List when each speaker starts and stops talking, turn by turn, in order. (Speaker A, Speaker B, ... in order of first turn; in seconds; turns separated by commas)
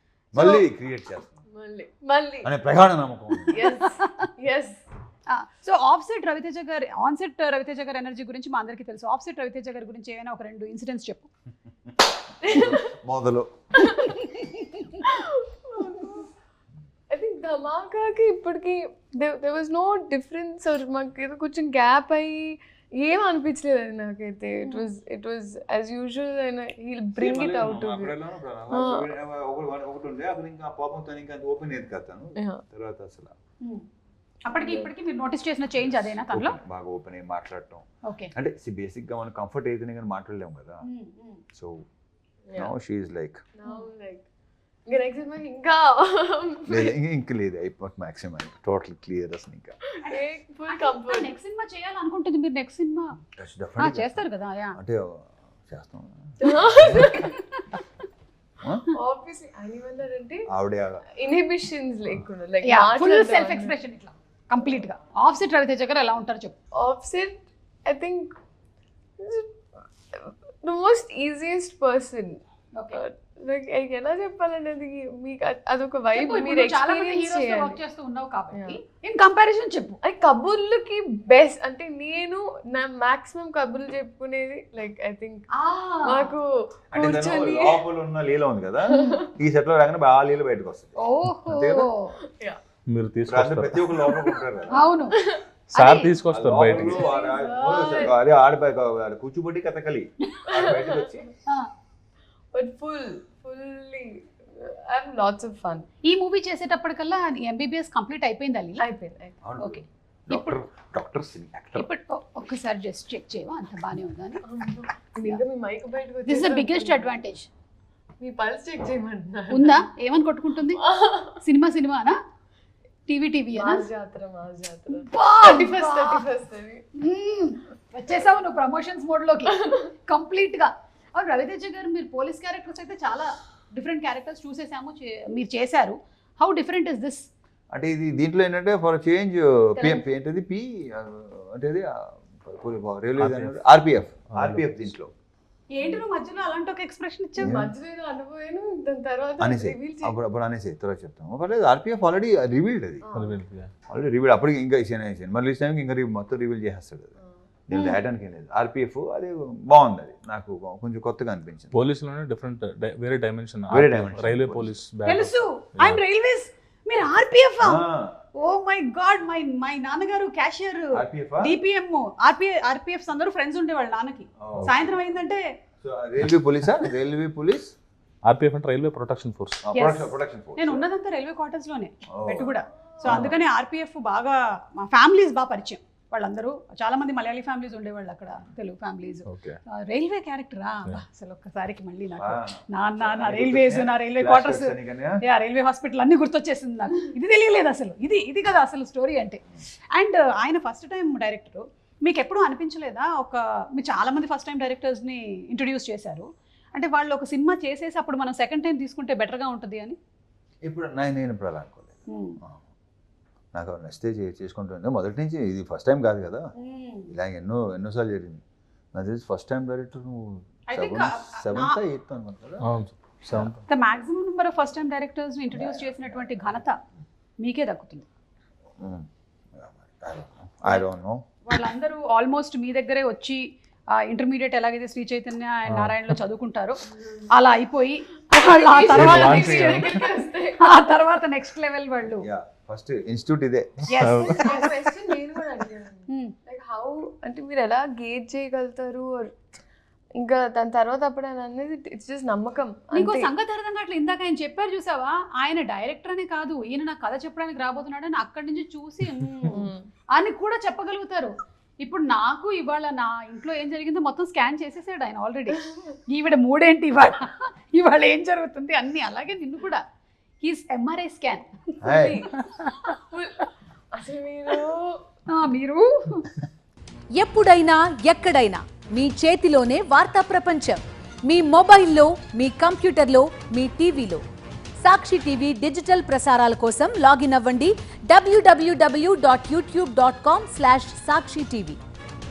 Speaker A: 0.3-1.3, Speaker B: 0.3-0.6, Speaker C: 1.5-2.5, Speaker A: 2.4-3.5, Speaker C: 3.5-4.8, Speaker B: 5.3-11.3, Speaker C: 12.4-12.9, Speaker A: 12.5-13.5, Speaker C: 13.8-14.2, Speaker C: 15.0-16.3, Speaker C: 17.1-28.2, Speaker A: 27.1-33.3, Speaker C: 28.7-29.1, Speaker C: 32.4-32.6, Speaker B: 34.5-36.5, Speaker C: 34.6-34.9, Speaker A: 35.9-40.8, Speaker B: 38.0-38.3, Speaker B: 40.8-41.4, Speaker A: 41.5-41.8, Speaker C: 42.5-42.7, Speaker A: 42.5-43.4, Speaker C: 43.6-44.2, Speaker C: 44.9-46.9, Speaker A: 46.7-49.8, Speaker B: 50.0-53.1, Speaker C: 50.1-51.3, Speaker A: 53.4-54.2, Speaker B: 53.8-54.8, Speaker A: 54.8-57.0, Speaker C: 56.4-57.3, Speaker B: 57.0-57.5, Speaker C: 58.9-60.5, Speaker A: 60.5-61.0, Speaker C: 61.1-63.7, Speaker B: 62.6-66.5, Speaker C: 66.8-68.3, Speaker C: 69.2-69.5, Speaker C: 70.1-72.4, Speaker C: 72.9-77.8, Speaker B: 76.1-80.0, Speaker C: 78.5-78.8, Speaker C: 80.0-85.5, Speaker B: 85.5-86.3, Speaker C: 86.0-87.8, Speaker A: 86.9-91.9, Speaker B: 91.0-92.1, Speaker D: 92.9-93.8, Speaker A: 93.3-94.8, Speaker B: 94.7-95.2, Speaker C: 95.1-95.4, Speaker D: 95.7-97.1, Speaker B: 95.7-96.1, Speaker A: 96.3-101.3, Speaker C: 96.9-98.1, Speaker C: 100.5-101.2, Speaker C: 102.5-105.9, Speaker B: 106.0-108.8, Speaker C: 108.8-109.4, Speaker A: 109.4-111.9, Speaker B: 109.6-110.6, Speaker B: 111.8-114.4, Speaker C: 114.4-117.1, Speaker B: 116.2-117.5, Speaker C: 118.2-119.8, Speaker B: 119.5-120.8, Speaker C: 120.7-121.4, Speaker B: 121.4-122.2, Speaker B: 123.1-123.9, Speaker C: 123.5-126.8, Speaker B: 125.0-126.2, Speaker B: 127.0-137.3, Speaker A: 137.7-145.1, Speaker C: 139.8-140.1, Speaker D: 143.2-143.6, Speaker D: 144.3-144.7, Speaker B: 145.7-147.6, Speaker A: 147.4-147.7, Speaker C: 147.4-150.1, Speaker A: 149.4-153.0, Speaker C: 153.0-153.4, Speaker D: 153.1-153.7, Speaker A: 153.9-157.1, Speaker A: 157.7-161.7, Speaker B: 157.7-158.0, Speaker D: 161.7-166.0, Speaker A: 163.7-164.7, Speaker B: 165.1-167.8, Speaker A: 167.6-168.2, Speaker B: 168.4-175.4, Speaker A: 170.9-171.5, Speaker A: 174.4-174.9, Speaker A: 175.8-177.7, Speaker D: 178.2-179.6, Speaker A: 179.6-180.8, Speaker B: 179.7-210.0, Speaker A: 182.1-182.5, Speaker A: 183.1-183.3, Speaker D: 189.3-189.6, Speaker A: 192.2-195.2, Speaker A: 210.6-212.6, Speaker B: 212.1-212.4, Speaker A: 213.5-216.5, Speaker B: 216.6-217.1, Speaker A: 217.1-218.4, Speaker A: 218.9-222.6, Speaker B: 220.7-221.8, Speaker D: 222.6-223.6, Speaker B: 223.7-226.8, Speaker A: 225.5-226.0, Speaker B: 227.4-228.1, Speaker A: 228.8-229.1, Speaker A: 229.6-231.2, Speaker B: 231.4-233.4, Speaker B: 234.0-240.0, Speaker D: 235.7-236.0, Speaker C: 238.3-240.6, Speaker D: 238.9-240.0, Speaker B: 240.6-242.2, Speaker A: 242.2-243.9, Speaker B: 243.9-244.7, Speaker D: 244.0-244.4, Speaker C: 244.4-249.3, Speaker C: 250.2-253.3, Speaker B: 252.9-269.8, Speaker C: 259.4-259.9, Speaker B: 270.4-272.8, Speaker A: 271.8-272.2, Speaker C: 271.8-272.4, Speaker C: 273.1-275.0, Speaker B: 275.3-276.3, Speaker E: 277.1-284.2, Speaker E: 284.8-291.8